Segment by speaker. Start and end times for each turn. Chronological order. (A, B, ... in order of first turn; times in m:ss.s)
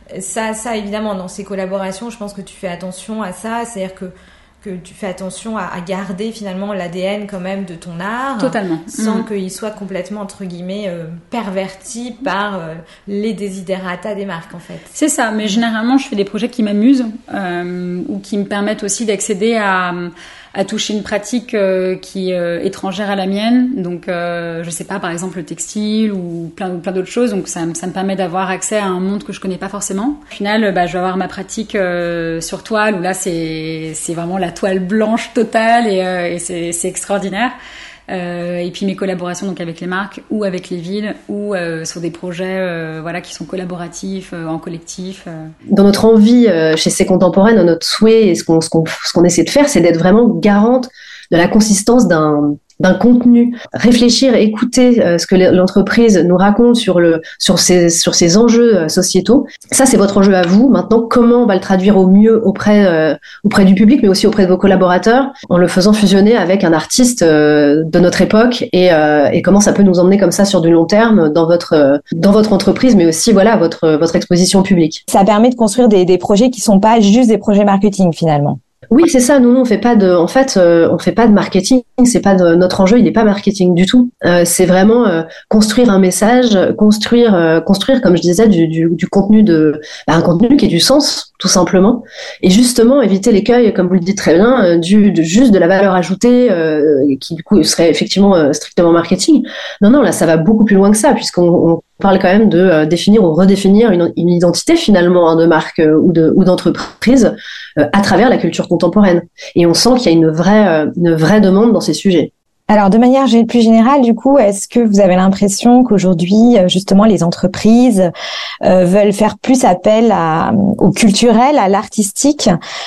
0:00.1-0:14.9 A
0:08.4-0:09.3 B
0:14.9-0:37.5 B
0:38.1-0:45.5 B
0:45.7-1:15.0 C
1:15.1-1:18.6 D
1:18.9-1:52.3 C
1:52.7-1:58.1 D
1:58.6-2:02.5 D